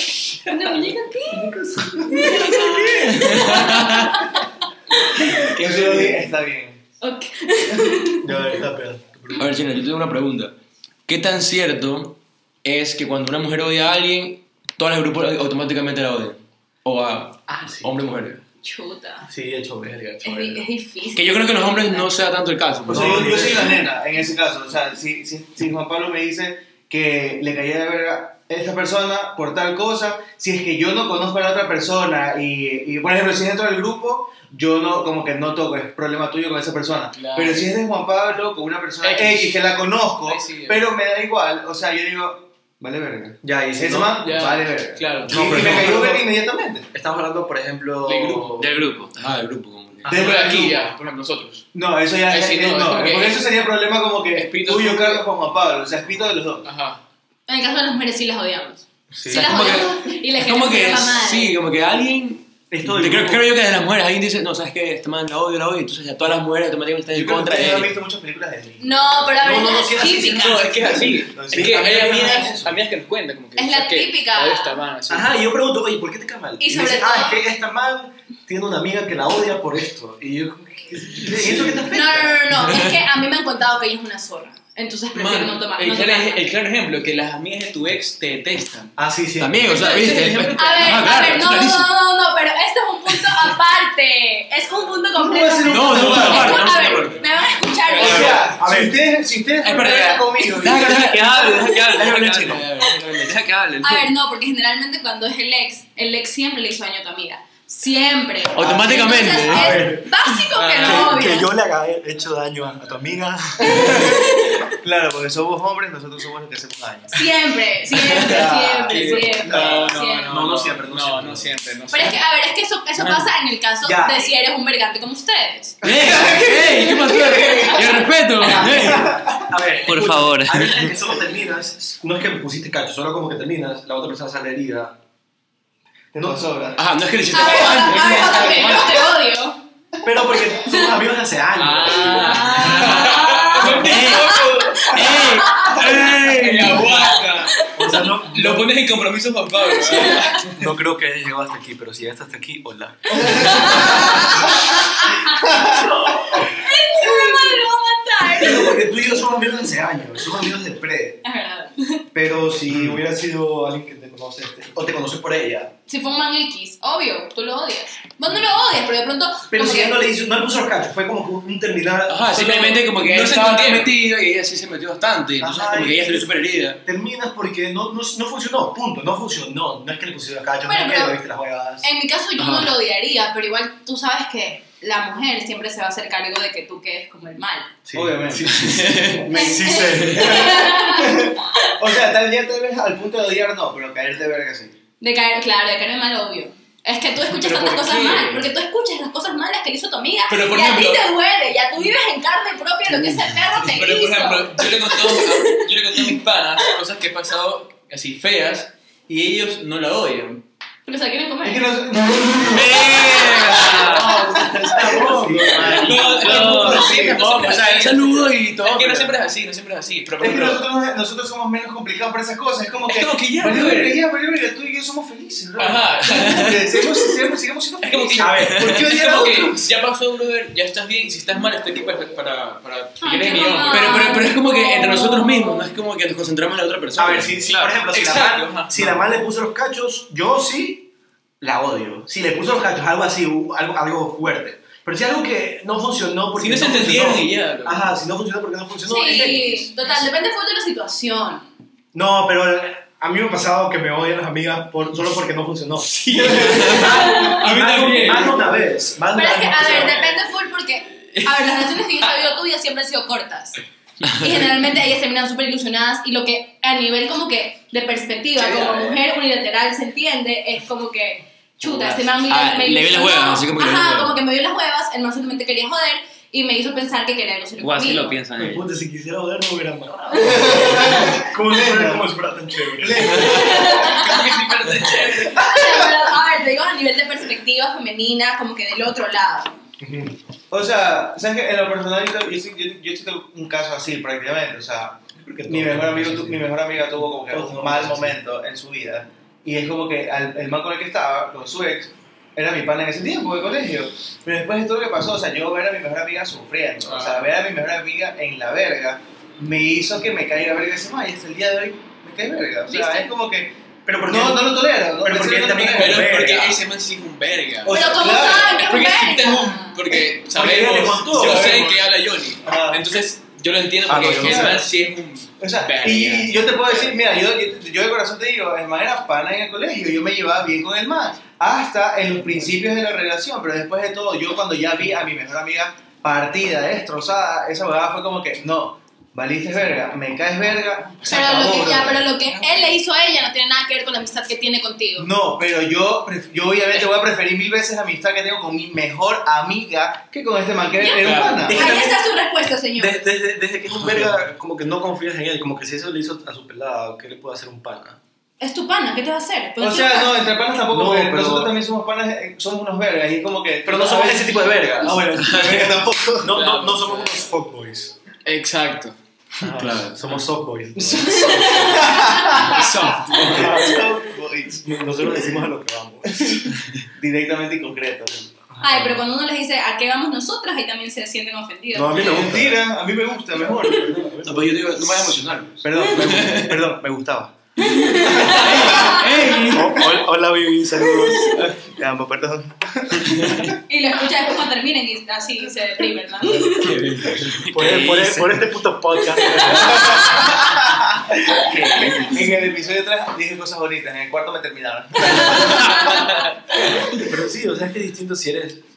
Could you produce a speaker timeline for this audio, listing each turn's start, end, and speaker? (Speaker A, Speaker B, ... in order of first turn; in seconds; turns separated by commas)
Speaker A: 0.4-5.4, Speaker B: 1.3-2.8, Speaker C: 2.4-4.2, Speaker B: 5.3-6.8, Speaker D: 5.6-6.2, Speaker A: 7.0-8.3, Speaker D: 8.2-9.4, Speaker B: 8.2-8.6, Speaker C: 9.3-10.5, Speaker C: 11.1-18.4, Speaker D: 17.5-18.1, Speaker A: 18.6-19.3, Speaker D: 19.2-20.6, Speaker A: 20.2-22.1, Speaker C: 21.1-23.6, Speaker D: 22.9-23.8, Speaker B: 22.9-46.9, Speaker E: 37.1-37.7, Speaker E: 39.0-39.6, Speaker E: 40.2-40.9, Speaker D: 43.4-44.2, Speaker E: 44.2-45.9, Speaker D: 45.3-46.2, Speaker D: 46.9-48.7, Speaker E: 48.0-48.6, Speaker F: 48.6-49.1, Speaker C: 49.1-50.1, Speaker D: 50.0-50.4, Speaker E: 50.0-51.7, Speaker B: 50.1-50.8, Speaker B: 51.7-56.7, Speaker E: 52.2-53.5, Speaker E: 54.3-55.2, Speaker E: 56.6-57.0, Speaker A: 57.5-61.5, Speaker B: 59.2-59.5, Speaker C: 59.3-67.9, Speaker D: 62.7-63.5, Speaker B: 67.1-68.9, Speaker A: 68.8-70.7, Speaker D: 69.4-72.8, Speaker E: 70.1-75.4, Speaker B: 71.3-72.1, Speaker A: 73.5-74.8, Speaker D: 75.1-82.5, Speaker A: 76.6-77.4, Speaker E: 81.3-81.8, Speaker A: 81.9-86.4, Speaker E: 85.1-88.9, Speaker D: 89.0-90.5, Speaker C: 89.4-91.9, Speaker B: 90.4-90.8, Speaker A: 90.5-98.5, Speaker B: 95.2-96.6, Speaker C: 95.7-97.3, Speaker E: 97.7-98.5, Speaker B: 98.0-101.2, Speaker C: 98.0-98.5, Speaker D: 98.1-99.0, Speaker C: 99.6-103.4, Speaker F: 100.8-102.7, Speaker D: 102.0-102.5, Speaker F: 103.2-104.1, Speaker A: 103.8-111.5, Speaker C: 108.5-111.2, Speaker D: 109.4-110.1, Speaker D: 110.8-114.2, Speaker A: 113.6-114.7, Speaker B: 113.8-114.1, Speaker B: 114.8-117.3, Speaker A: 117.1-120.3, Speaker B: 118.0-119.8, Speaker E: 118.9-122.2, Speaker D: 120.3-121.5, Speaker A: 121.9-125.8, Speaker E: 123.0-123.2, Speaker D: 123.8-124.3, Speaker C: 125.8-129.1, Speaker D: 125.8-126.5, Speaker B: 125.9-127.7, Speaker A: 127.4-127.7, Speaker D: 128.4-134.9, Speaker B: 128.4-129.4, Speaker F: 129.8-130.9, Speaker B: 136.1-136.8, Speaker D: 136.1-136.5, Speaker C: 136.8-139.1, Speaker A: 137.3-139.6, Speaker D: 140.0-142.7, Speaker A: 140.7-141.0, Speaker E: 141.6-150.6, Speaker A: 141.9-146.1, Speaker C: 142.6-147.0, Speaker A: 147.4-148.1, Speaker D: 147.7-148.7, Speaker A: 149.6-150.5, Speaker D: 150.5-154.6, Speaker A: 153.1-155.7, Speaker B: 153.3-153.9, Speaker B: 155.3-156.2, Speaker D: 155.6-156.4, Speaker A: 156.3-158.9, Speaker D: 158.3-161.2, Speaker A: 161.2-162.0, Speaker D: 162.1-165.7, Speaker A: 165.9-170.0, Speaker D: 169.5-172.3, Speaker C: 172.1-176.8, Speaker E: 172.3-173.9, Speaker D: 175.4-176.2, Speaker B: 175.4-175.8, Speaker D: 176.8-181.8, Speaker A: 180.7-181.2, Speaker A: 181.8-187.7, Speaker C: 182.4-182.7, Speaker D: 187.8-190.5, Speaker B: 187.9-194.8, Speaker A: 189.3-191.8, Speaker A: 195.0-206.7, Speaker E: 197.3-198.5, Speaker E: 200.3-201.1, Speaker E: 203.5-210.4, Speaker A: 210.8-211.7, Speaker B: 211.4-217.3, Speaker F: 212.5-214.2, Speaker C: 212.5-213.6, Speaker D: 214.3-216.0, Speaker E: 215.3-220.6, Speaker F: 215.9-216.9, Speaker C: 216.6-219.1, Speaker B: 220.2-228.9, Speaker E: 222.8-224.0, Speaker E: 225.6-226.8, Speaker C: 226.2-226.5, Speaker E: 227.8-234.2, Speaker D: 228.2-229.6, Speaker A: 233.0-235.7, Speaker C: 233.7-237.4, Speaker D: 236.9-240.9, Speaker E: 237.4-239.2, Speaker D: 241.4-249.7, Speaker E: 246.3-247.9, Speaker A: 248.8-251.5, Speaker D: 251.9-260.2, Speaker E: 256.0-258.5, Speaker A: 256.8-257.4, Speaker A: 259.1-263.6, Speaker E: 261.1-262.1, Speaker A: 264.1-278.2, Speaker E: 268.4-269.0, Speaker C: 272.2-274.1, Speaker F: 277.6-278.6, Speaker D: 278.4-283.4, Speaker A: 280.2-280.5, Speaker B: 280.2-282.1, Speaker B: 282.8-284.1, Speaker A: 283.1-284.4, Speaker E: 283.4-285.5, Speaker B: 285.3-285.9, Speaker A: 285.4-289.6, Speaker D: 289.8-290.1, Speaker B: 290.5-313.5, Speaker D: 295.2-296.5, Speaker D: 297.2-298.2, Speaker E: 306.8-307.3, Speaker A: 312.7-313.1, Speaker D: 313.9-316.6, Speaker B: 314.1-316.2, Speaker E: 315.7-327.0, Speaker D: 317.7-317.9, Speaker B: 317.7-318.6, Speaker A: 317.7-319.8, Speaker D: 320.3-321.8, Speaker B: 321.1-321.8, Speaker B: 322.4-322.8, Speaker D: 323.9-324.6, Speaker B: 324.1-324.6, Speaker B: 325.4-342.2, Speaker A: 341.0-345.1, Speaker D: 341.4-341.9, Speaker B: 345.0-351.6, Speaker A: 350.8-353.0, Speaker C: 351.0-351.4, Speaker D: 351.3-352.0, Speaker D: 352.8-358.0, Speaker A: 358.4-360.2, Speaker B: 359.6-366.3, Speaker D: 360.7-361.6, Speaker D: 363.6-365.6, Speaker C: 365.2-365.6, Speaker D: 366.2-367.9, Speaker E: 366.3-367.3, Speaker E: 368.2-368.9, Speaker D: 369.4-371.8, Speaker C: 369.5-370.2, Speaker A: 371.0-372.5, Speaker B: 371.4-374.7, Speaker E: 372.4-373.5, Speaker C: 372.6-373.1, Speaker D: 373.1-374.0, Speaker D: 374.6-376.4, Speaker B: 376.2-378.4, Speaker D: 378.5-379.0, Speaker A: 378.6-382.1, Speaker D: 381.7-382.6, Speaker B: 382.0-383.9, Speaker D: 383.3-385.4, Speaker C: 384.2-386.5, Speaker B: 385.6-387.3, Speaker A: 387.6-389.8, Speaker B: 387.9-389.1, Speaker C: 388.2-389.6, Speaker D: 389.4-391.5, Speaker A: 391.1-391.3, Speaker B: 391.6-393.6, Speaker A: 393.6-396.8, Speaker C: 396.4-397.5, Speaker F: 397.4-398.4, Speaker D: 397.5-400.3, Speaker A: 399.2-400.4, Speaker B: 399.8-407.0, Speaker A: 401.3-402.1, Speaker A: 405.0-406.1, Speaker D: 406.6-408.6